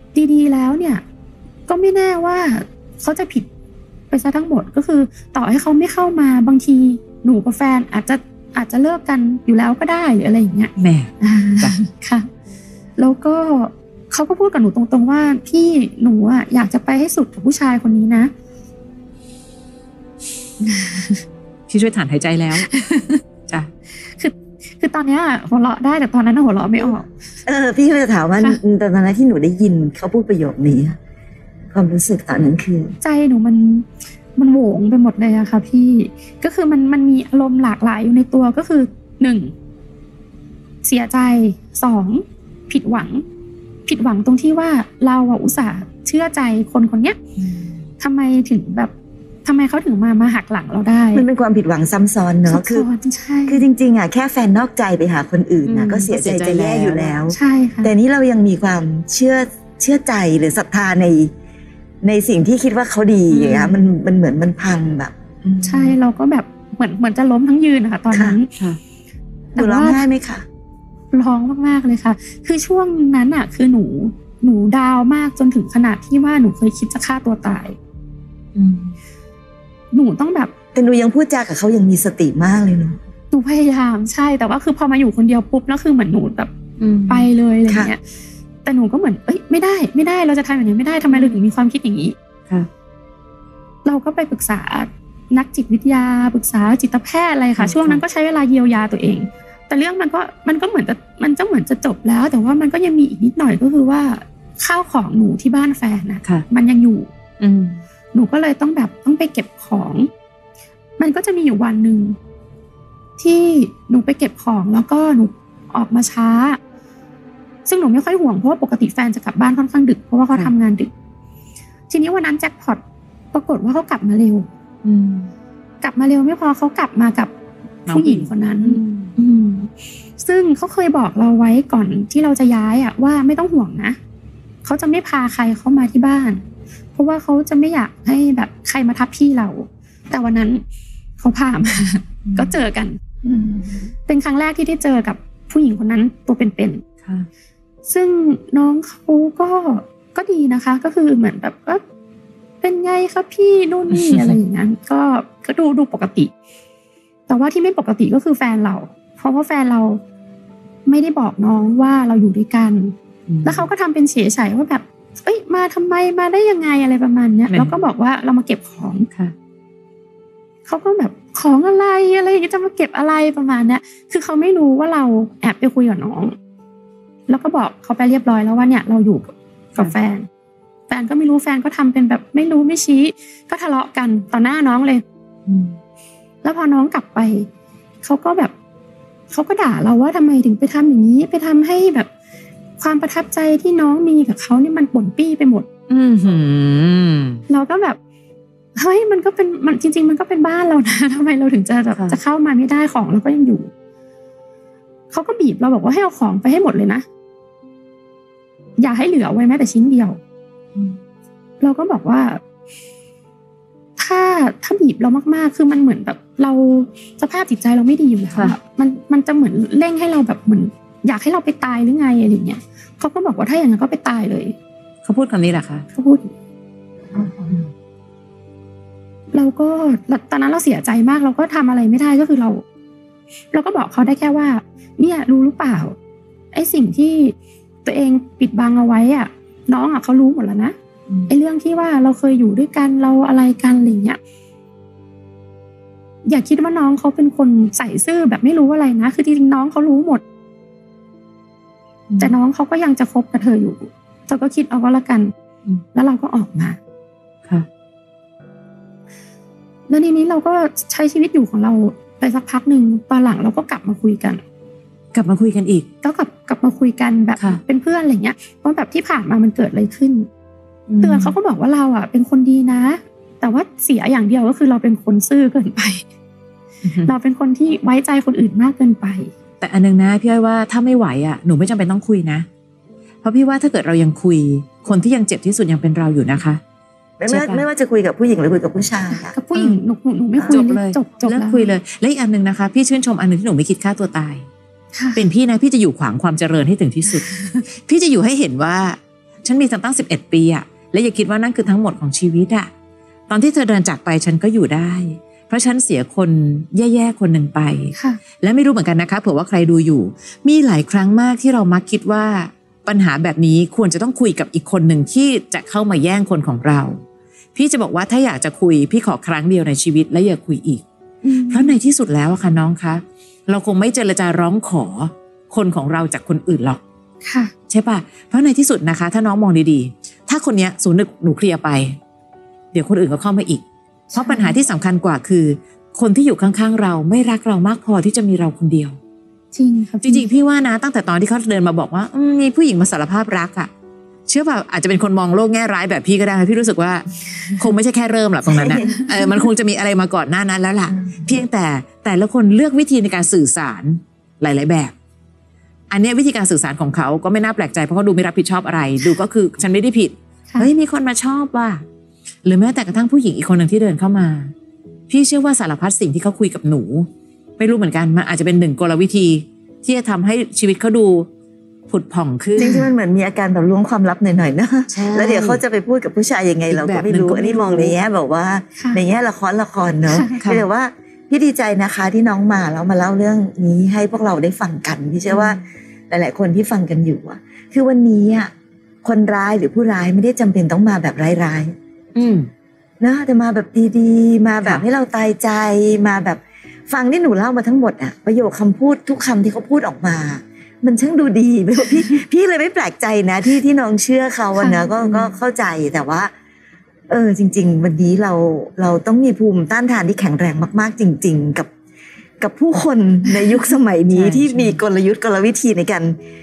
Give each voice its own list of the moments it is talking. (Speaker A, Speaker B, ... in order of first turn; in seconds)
Speaker A: 0.1-1.0, 1.7-3.5, 4.1-12.3, 13.0-18.3, 20.6-21.2, 22.6-23.2, 24.2-27.1, 33.0-39.5, 40.8-43.2, 43.9-47.2, 48.0-48.9, 49.5-51.3, 52.5-53.6, 57.3-57.9, 65.6-68.5, 69.6-70.0, 71.1-77.8, 79.9-80.5, 83.3-86.5, 87.1-88.0, 88.7-92.2, 93.8-107.1, 108.1-110.1, 111.0-112.2, 113.2-116.6, 117.7-120.9, 121.9-122.8, 123.3-124.5, 125.8-127.3, 127.9-134.0, 134.6-136.4, 136.9-140.6, 141.2-143.0, 144.1-146.8, 147.9-151.8, 152.6-156.3, 157.3-160.0, 160.9-169.1, 170.7-176.3, 177.3-180.3, 180.9-185.0, 186.4-187.5, 188.0-188.5, 189.3-192.1, 192.8-195.7, 197.5-198.0, 198.8-203.7, 205.1-207.1, 208.8-210.2, 211.6-212.4, 214.0-224.6, 225.9-226.3, 229.3-232.6, 233.5-235.9, 236.5-237.3, 237.8-240.7, 241.3-244.2, 246.2-250.2, 252.2-255.3, 255.9-256.8, 259.9-264.4, 266.0-270.3, 271.0-276.0, 277.0-279.3, 289.1-291.7, 294.9-295.2, 297.1-297.6, 308.0-308.2, 321.2-321.8, 327.2-327.5, 334.1-334.6, 339.5-340.3, 348.7-349.0, 372.6-372.8, 378.8-379.0, 380.1-380.4, 404.6-405.3
Speaker B: 10.8-11.8, 21.7-22.8, 47.4-47.7, 55.6-57.2, 63.3-63.8, 78.6-79.0, 86.8-87.3, 91.1-91.4, 97.6-98.0, 107.4-107.8, 124.8-125.3, 127.9-129.2, 142.2-142.6, 153.9-154.4, 163.3-163.7, 167.5-167.8, 185.5-185.8, 195.9-197.4, 225.1-225.8, 265.1-265.9, 270.9-271.4, 276.8-277.1, 279.6-282.5, 283.2-286.6, 287.3-287.7, 289.5-289.8, 290.5-294.4, 295.2-302.7, 303.3-317.0, 317.6-320.8, 321.4-326.8, 327.7-332.0, 332.7-339.0, 340.0-343.7, 344.3-354.9, 355.9-361.8, 362.4-364.5, 365.1-367.1, 367.6-371.3, 371.9-372.9, 374.9-375.6, 376.7-378.0, 385.3-385.6, 392.1-392.5, 414.1-414.8
Speaker C: 26.8-31.0, 31.7-33.0, 51.1-52.9, 53.5-61.3, 62.0-66.0, 68.1-68.4, 69.6-70.5, 80.8-83.0, 87.7-87.9, 143.3-143.5, 287.2-289.4, 348.5-349.3, 351.0-351.4, 372.6-388.5, 389.0-391.7, 393.0-406.3, 407.1-411.7, 412.4-416.2